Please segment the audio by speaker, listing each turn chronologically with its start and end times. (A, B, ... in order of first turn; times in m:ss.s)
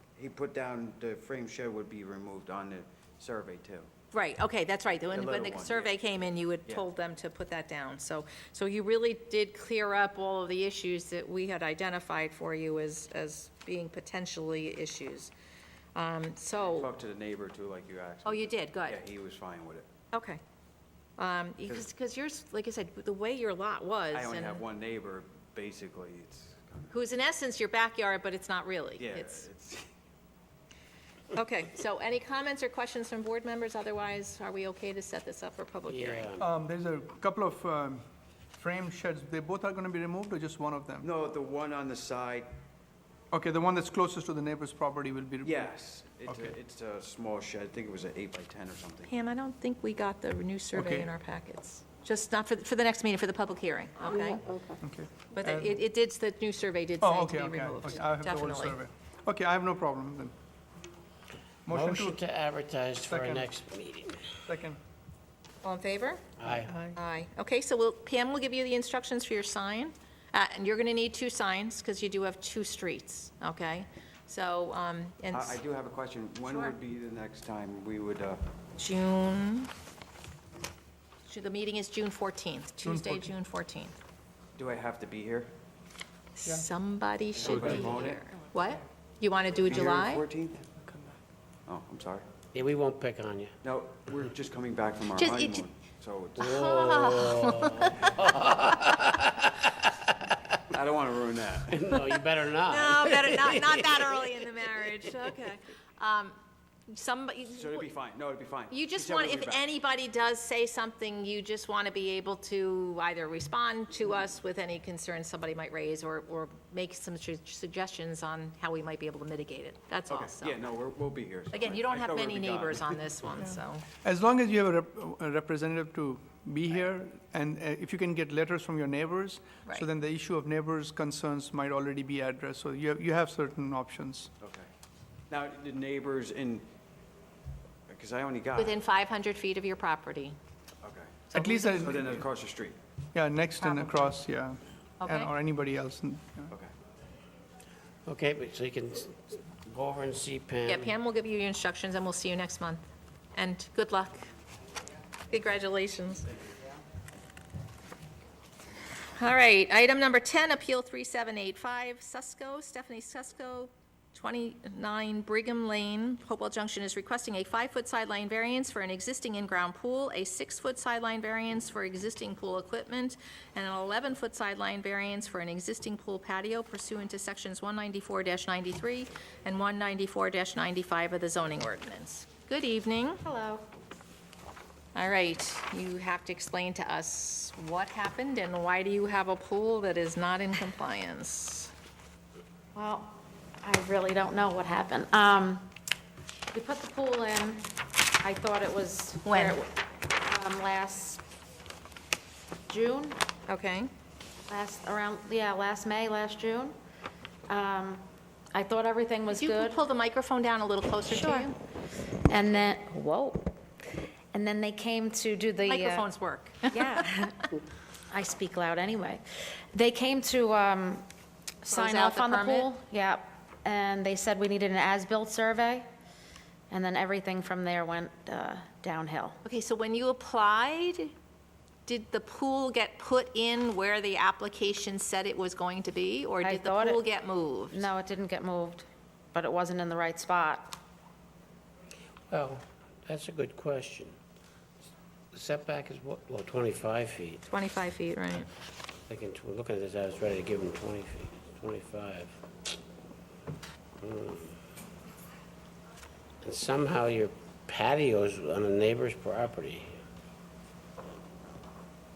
0:00.2-0:03.9 A
0:04.1-0:15.3 B
0:05.1-0:05.9 A
0:15.9-0:16.9 B
0:16.5-0:19.9 A
0:18.2-0:19.0 B
0:20.1-0:20.4 B
0:21.2-0:24.6 B
0:24.1-0:27.0 A
0:26.9-0:29.4 B
0:29.0-0:29.8 A
0:31.3-0:36.3 B
0:35.8-0:36.5 C
0:36.4-0:38.0 D
0:38.6-0:41.1 D
0:41.0-0:42.5 A
0:43.3-0:45.7 D
0:45.4-0:49.1 A
0:46.2-0:46.5 D
0:49.1-0:54.5 B
0:50.7-0:51.1 D
0:54.2-0:54.7 E
0:54.8-0:55.8 D
0:55.3-0:58.8 B
0:57.0-1:00.3 D
1:01.6-1:02.2 D
1:01.7-1:04.4 C
1:03.1-1:03.4 D
1:04.4-1:04.8 D
1:05.6-1:06.2 B
1:06.4-1:06.8 C
1:06.8-1:15.6 B
1:15.3-1:18.4 A
1:16.4-1:16.7 B
1:18.8-1:19.7 B
1:21.2-1:23.9 B
1:22.8-1:23.3 D
1:24.6-1:25.5 A
1:26.4-1:30.2 B
1:27.4-1:28.2 A
1:29.6-1:30.6 A
1:30.8-1:31.1 D
1:31.6-1:32.2 A
1:32.5-1:33.5 C
1:33.6-1:36.6 A
1:35.2-1:35.6 B
1:36.4-1:38.2 B
1:36.4-1:40.6 C
1:40.7-1:41.8 A
1:41.7-1:44.2 C
1:42.6-1:46.4 B
1:46.9-1:47.9 B
1:47.5-1:49.6 A
1:48.7-2:00.7 B
2:00.1-2:03.0 A
2:01.5-2:03.8 B
2:03.4-2:14.3 D
2:14.4-2:14.7 A
2:15.3-2:16.6 A
2:17.9-2:18.8 A
2:18.6-2:20.4 B
2:20.8-2:21.3 A
2:21.3-2:22.2 B
2:21.3-2:22.2 D
2:21.8-2:22.8 A
2:23.1-2:26.5 D
2:23.6-2:24.1 B
2:25.0-2:25.3 B
2:28.0-2:30.9 C
2:30.7-2:32.8 B
2:33.3-2:34.2 B
2:35.3-2:36.3 B
2:39.1-3:03.2 B
3:03.2-3:03.6 E
3:04.9-3:11.7 B
3:12.7-3:15.7 E
3:16.5-3:17.6 E
3:18.2-3:21.2 E
3:19.2-3:19.6 B
3:22.7-3:23.2 E
3:23.5-3:23.9 B
3:24.5-3:26.7 E
3:27.5-3:29.8 E
3:29.3-3:31.6 B
3:31.1-3:31.5 E
3:32.3-3:33.6 E
3:34.3-3:36.1 E
3:35.6-3:37.2 B
3:36.7-3:37.4 E
3:38.1-3:41.0 E
3:41.6-3:45.8 E
3:41.7-3:42.7 B
3:46.7-3:49.4 E
3:49.4-3:51.1 B
3:51.8-3:57.9 B
3:56.4-3:57.0 E
3:57.7-4:00.8 E
4:02.3-4:04.2 C
4:05.3-4:07.4 C
4:07.5-4:08.5 B
4:09.1-4:12.3 C
4:14.0-4:14.6 C
4:16.4-4:19.9 C